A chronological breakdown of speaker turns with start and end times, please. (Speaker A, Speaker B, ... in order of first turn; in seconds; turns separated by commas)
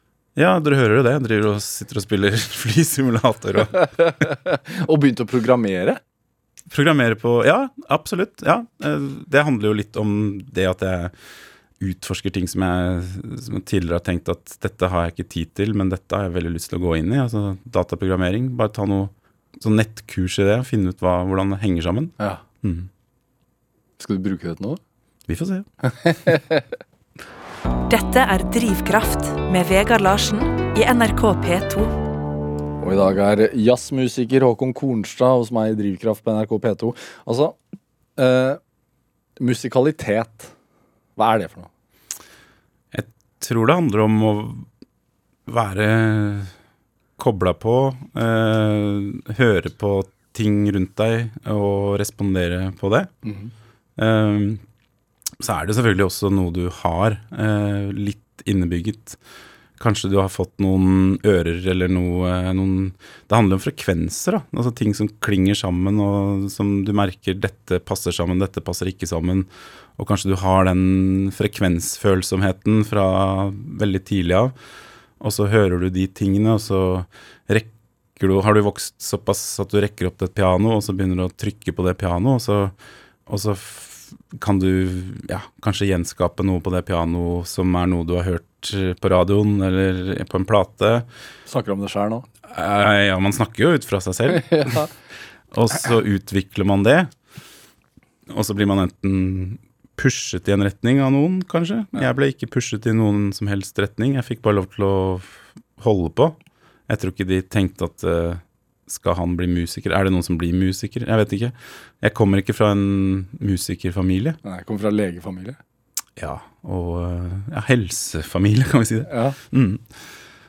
Speaker A: 0.3-3.9, Speaker B: 3.8-6.0, Speaker A: 6.7-11.1, Speaker A: 11.8-22.9, Speaker B: 24.0-24.8, Speaker A: 25.3-25.7, Speaker B: 25.8-26.6, Speaker C: 27.9-31.9, Speaker B: 32.8-37.5, Speaker B: 38.1-38.6, Speaker B: 39.4-40.5, Speaker B: 41.2-41.7, Speaker A: 42.9-44.7, Speaker A: 45.5-46.5, Speaker A: 47.2-53.1, Speaker B: 53.2-53.5, Speaker A: 54.0-54.6, Speaker A: 55.4-59.2, Speaker A: 59.8-74.5, Speaker A: 75.2-82.7, Speaker A: 83.3-91.0, Speaker B: 91.5-92.3, Speaker A: 92.5-94.9, Speaker B: 94.4-94.9, Speaker A: 95.5-97.1, Speaker A: 98.3-106.3, Speaker A: 106.9-114.4, Speaker B: 114.4-115.6, Speaker A: 116.2-119.8, Speaker B: 119.1-119.4